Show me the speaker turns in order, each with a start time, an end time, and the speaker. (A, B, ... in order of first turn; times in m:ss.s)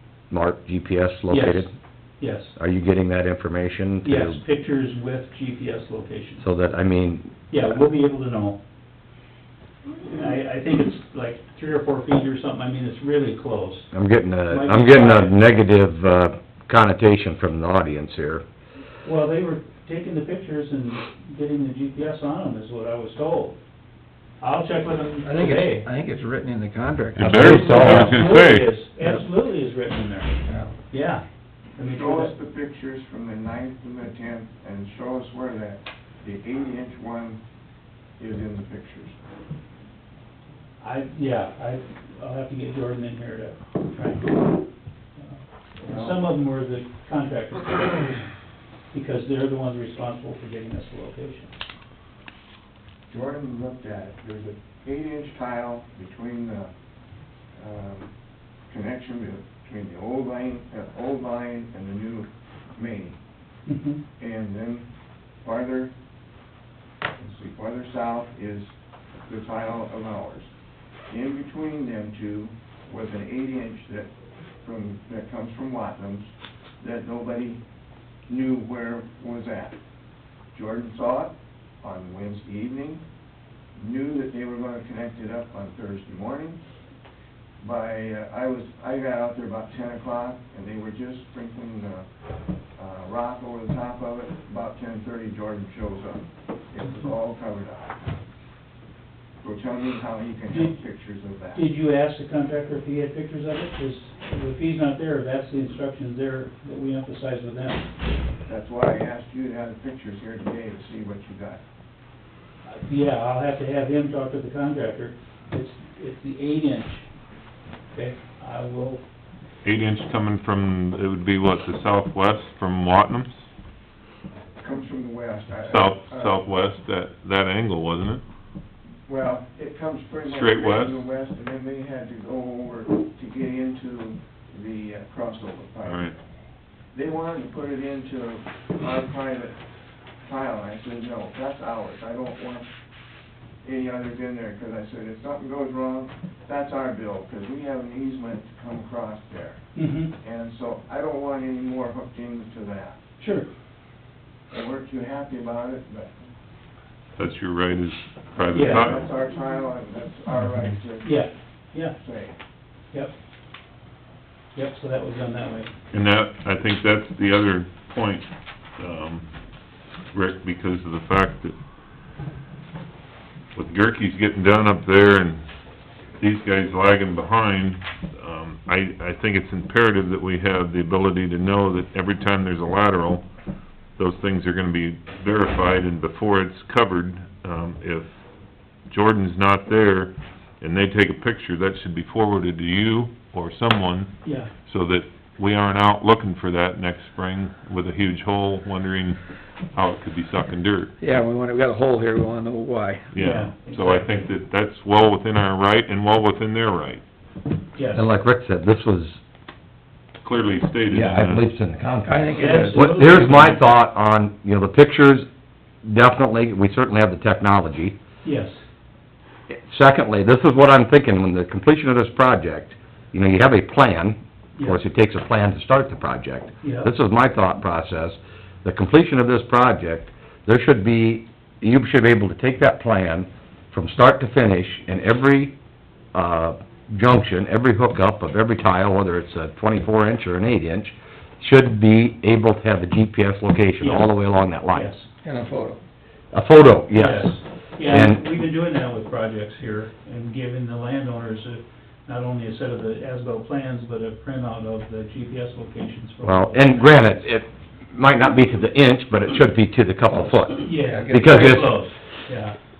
0:00.3-0:01.7 A
0:01.3-0:01.7 B
0:02.2-0:02.5 B
0:02.6-0:04.4 A
0:04.0-0:06.4 B
0:06.4-0:07.3 A
0:07.5-0:08.6 B
0:10.0-0:13.9 B
0:13.9-0:18.4 A
0:14.5-0:15.4 B
0:19.0-0:23.6 B
0:24.4-0:25.9 B
0:25.2-0:27.8 C
0:27.2-0:28.7 D
0:27.2-0:28.2 A
0:27.3-0:31.2 B
0:30.5-0:30.7 C
0:31.8-0:32.3 B
0:31.8-0:37.4 E
0:38.2-0:39.2 E
0:40.8-0:44.6 B
0:45.2-0:48.3 B
0:45.8-0:46.2 E
0:48.9-0:51.5 B
0:53.1-0:56.7 E
0:57.6-0:58.1 E
0:58.7-1:03.2 E
1:03.7-1:04.0 B
1:04.2-1:04.9 E
1:05.4-1:05.9 E
1:07.2-1:08.7 E
1:09.3-1:10.5 E
1:11.1-1:14.1 E
1:14.6-1:16.3 E
1:16.8-1:17.6 E
1:18.3-1:19.8 E
1:20.5-1:23.0 E
1:23.8-1:26.6 E
1:27.6-1:32.0 E
1:32.8-1:38.0 E
1:39.4-1:41.6 E
1:40.5-1:40.8 B
1:41.5-1:47.9 B
1:48.5-1:51.6 E
1:52.7-1:57.0 B
1:57.9-1:59.0 B
1:59.6-2:03.5 D
2:04.6-2:06.4 E
2:05.7-2:08.2 D
2:09.1-2:16.1 E
2:10.3-2:11.0 D
2:15.8-2:16.2 D
2:16.9-2:19.6 E
2:20.2-2:22.7 E
2:23.6-2:29.6 E
2:29.8-2:30.1 B
2:30.2-2:33.0 E
2:33.2-2:33.5 B
2:34.5-2:36.2 E
2:37.2-2:39.1 D
2:38.5-2:38.9 B
2:38.5-2:41.2 E
2:41.0-2:42.0 B
2:42.0-2:42.4 E
2:44.6-2:45.7 B
2:45.9-2:49.3 D
2:50.1-2:51.6 D
2:53.6-2:55.4 D
2:56.2-3:03.3 D
3:04.0-3:08.2 D
3:08.9-3:21.0 D
3:14.2-3:14.5 B
3:21.0-3:23.1 C
3:23.1-3:27.0 D
3:23.2-3:24.1 B
3:27.8-3:28.1 B
3:27.9-3:29.2 A
3:30.2-3:31.4 D
3:30.9-3:35.3 A
3:32.1-3:33.3 C
3:32.4-3:33.6 B
3:35.8-3:38.0 A
3:38.2-3:38.6 B
3:39.5-3:55.6 A
3:46.6-3:46.9 B
3:56.1-4:04.9 A
4:03.8-4:05.1 B
4:05.2-4:05.8 C
4:06.3-4:08.2 A
4:06.9-4:17.2 B
4:16.2-4:21.8 A
4:20.6-4:22.6 B
4:20.9-4:21.5 C